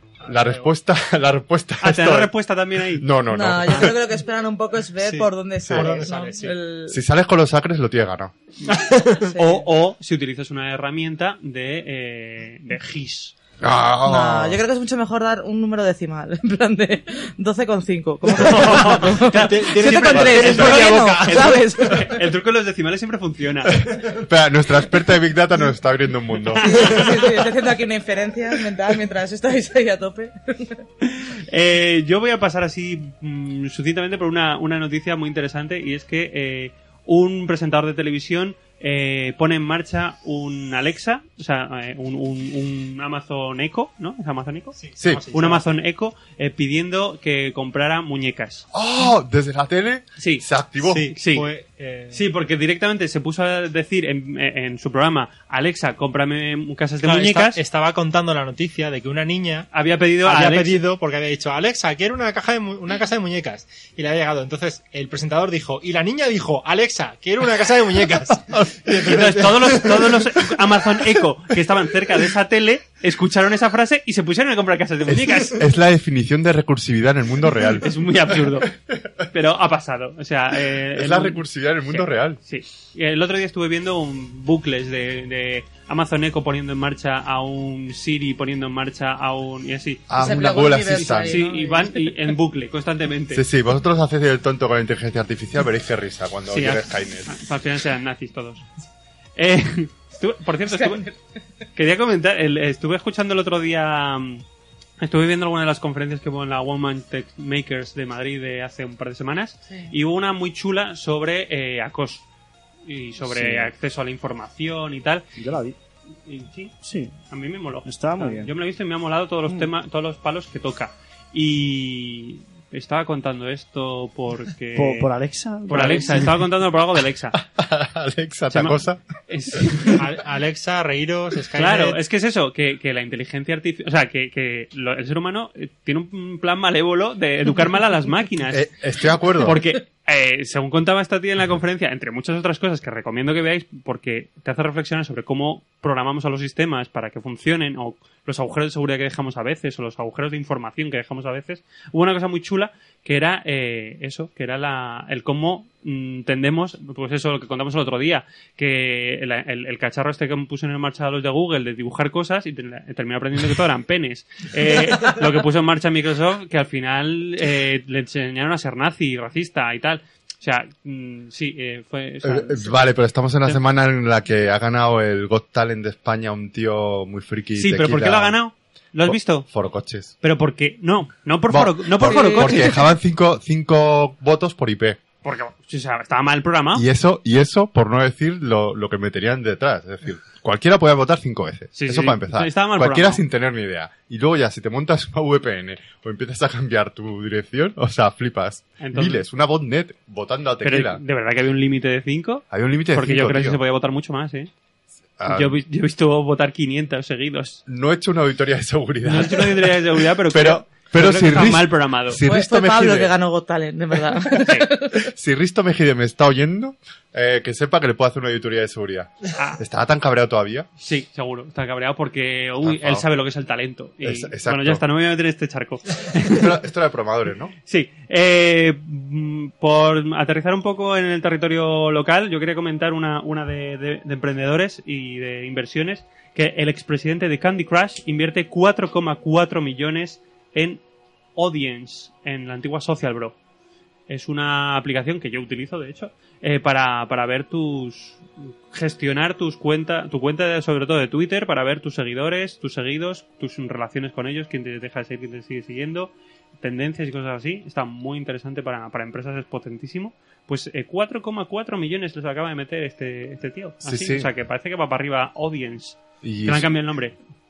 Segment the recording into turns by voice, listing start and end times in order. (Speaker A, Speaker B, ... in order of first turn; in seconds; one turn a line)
Speaker A: 0.2-0.7
Speaker B: 0.2-2.3
Speaker C: 1.8-3.1
Speaker B: 2.9-4.0
Speaker D: 3.3-7.0
Speaker A: 5.0-6.6
Speaker B: 5.6-5.9
Speaker B: 6.9-8.3
Speaker C: 8.6-13.3
Speaker A: 8.8-9.2
Speaker D: 9.3-9.6
Speaker B: 13.6-14.6
Speaker D: 14.0-22.1
Speaker C: 18.4-23.9
Speaker A: 18.4-21.9
Speaker B: 23.7-26.9
Speaker C: 26.5-27.4
Speaker D: 26.6-30.7
Speaker C: 31.0-44.8
Speaker A: 44.8-45.7
Speaker B: 45.0-45.2
Speaker C: 45.3-48.6
Speaker B: 48.7-51.1
Speaker C: 50.2-50.4
Speaker A: 50.8-52.2
Speaker C: 51.1-51.5
Speaker C: 52.1-57.6
Speaker A: 57.0-59.7
Speaker C: 59.7-60.8
Speaker A: 60.2-70.3
Speaker B: 68.5-68.8
Speaker C: 68.9-75.6
Speaker B: 75.0-78.9
Speaker C: 77.8-78.7
Speaker C: 79.3-90.1
Speaker B: 80.9-82.4
Speaker B: 90.1-91.4
Speaker D: 90.2-92.1
Speaker C: 91.2-93.4
Speaker B: 93.3-97.3
Speaker C: 96.5-98.6
Speaker C: 99.4-101.0
Speaker D: 100.7-101.1
Speaker C: 101.7-104.4
Speaker C: 105.0-112.2
Speaker C: 112.8-115.2
Speaker E: 113.2-113.7
Speaker E: 115.4-115.8
Speaker C: 116.2-116.7
Speaker E: 116.8-117.1
Speaker C: 117.3-125.1
Speaker E: 117.8-118.5
Speaker E: 124.7-126.5
Speaker C: 125.7-127.4
Speaker B: 127.3-129.0
Speaker C: 128.5-130.0
Speaker A: 129.9-132.0
Speaker C: 131.5-138.7
Speaker B: 138.5-139.6
Speaker C: 139.4-172.9
Speaker B: 172.2-178.4
Speaker C: 177.6-179.5
Speaker B: 179.0-180.1
Speaker C: 180.2-182.8
Speaker B: 181.5-185.0
Speaker D: 182.0-182.6
Speaker C: 185.2-186.8
Speaker B: 186.7-201.0
Speaker C: 191.7-193.2
Speaker C: 198.8-199.2
Speaker C: 200.6-204.5
Speaker B: 202.5-203.6
Speaker B: 205.2-205.6
Speaker C: 205.3-207.6
Speaker B: 207.7-213.1
Speaker C: 209.0-212.2
Speaker D: 212.2-215.0
Speaker B: 214.9-220.7
Speaker C: 219.3-219.6
Speaker C: 220.8-226.5
Speaker B: 222.6-223.1
Speaker B: 224.0-224.8
Speaker B: 226.3-227.5
Speaker C: 227.7-240.8
Speaker C: 241.3-243.3
Speaker C: 244.1-267.1
Speaker B: 263.8-264.3
Speaker B: 266.2-266.7